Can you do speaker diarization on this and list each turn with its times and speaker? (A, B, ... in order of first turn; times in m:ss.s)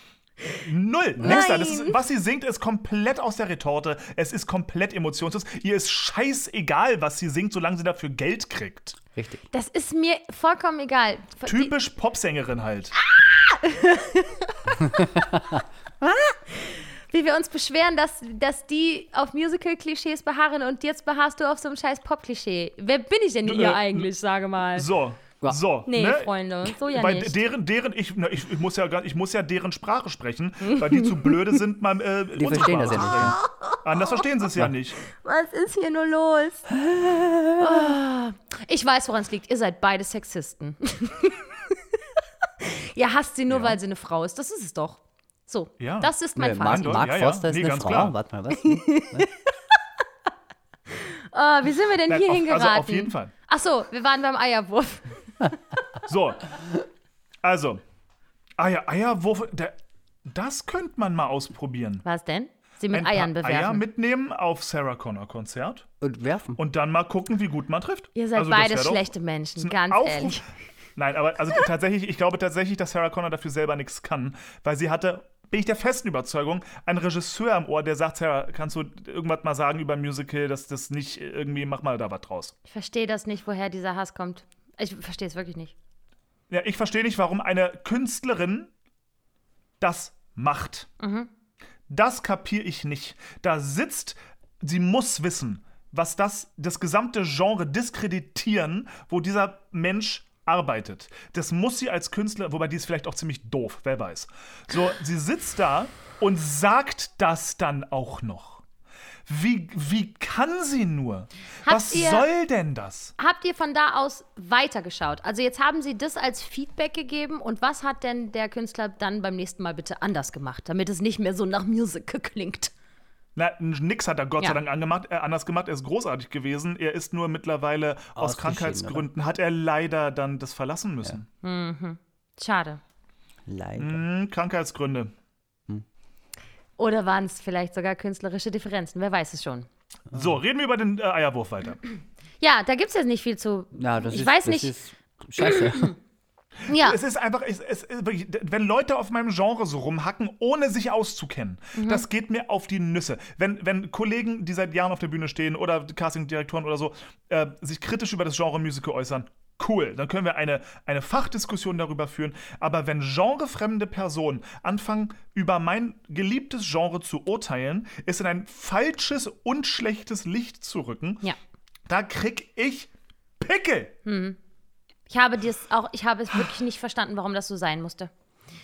0:00.6-0:09.0 A
0:01.2-0:02.0 B
0:09.2-0:09.4 C
0:09.5-0:11.7 B
0:11.5-0:13.0 A
0:13.1-0:15.1 B
0:14.9-0:15.6 C
0:16.0-0:24.9 B
0:23.5-0:24.1 A
0:24.8-0:35.0 A
0:25.9-0:27.4 B
0:30.7-0:31.4 B
0:32.4-0:33.4 C
0:33.3-0:34.2 B
0:35.1-0:36.8 B
0:37.6-0:41.5 B
0:42.6-0:47.1 B
0:43.5-0:43.8 A
0:45.8-0:48.2 A
0:46.4-0:49.3 C
0:48.6-0:49.5 B
0:50.9-0:55.6 B
0:52.1-0:53.3 A
0:56.1-0:56.6 A
0:57.4-0:57.8 A
0:58.6-1:02.0 A
1:02.0-1:03.8 B
1:02.9-1:05.9 A
1:06.0-1:06.6 C
1:06.6-1:10.4 A
1:08.2-1:10.4 B
1:11.0-1:22.5 A
1:22.7-1:25.7 B
1:26.5-1:28.7 A
1:29.8-1:30.9 A
1:31.0-1:31.3 B
1:31.9-1:48.6 A
1:49.3-1:53.1 A
1:51.6-1:52.3 B
1:53.2-2:02.7 B
2:03.4-2:11.3 A
2:08.2-2:09.1 C
2:11.4-2:12.8 B
2:13.5-2:14.0 C
2:13.8-2:15.1 A
2:16.8-2:19.7 B
2:20.1-2:21.8 A
2:22.4-2:24.7 B
2:23.7-2:26.0 C
2:25.4-2:25.9 B
2:26.7-2:27.0 B
2:26.7-2:51.2 A
2:31.8-2:32.0 B
2:51.9-2:53.9 A
2:54.0-2:54.4 B
2:55.1-2:58.1 B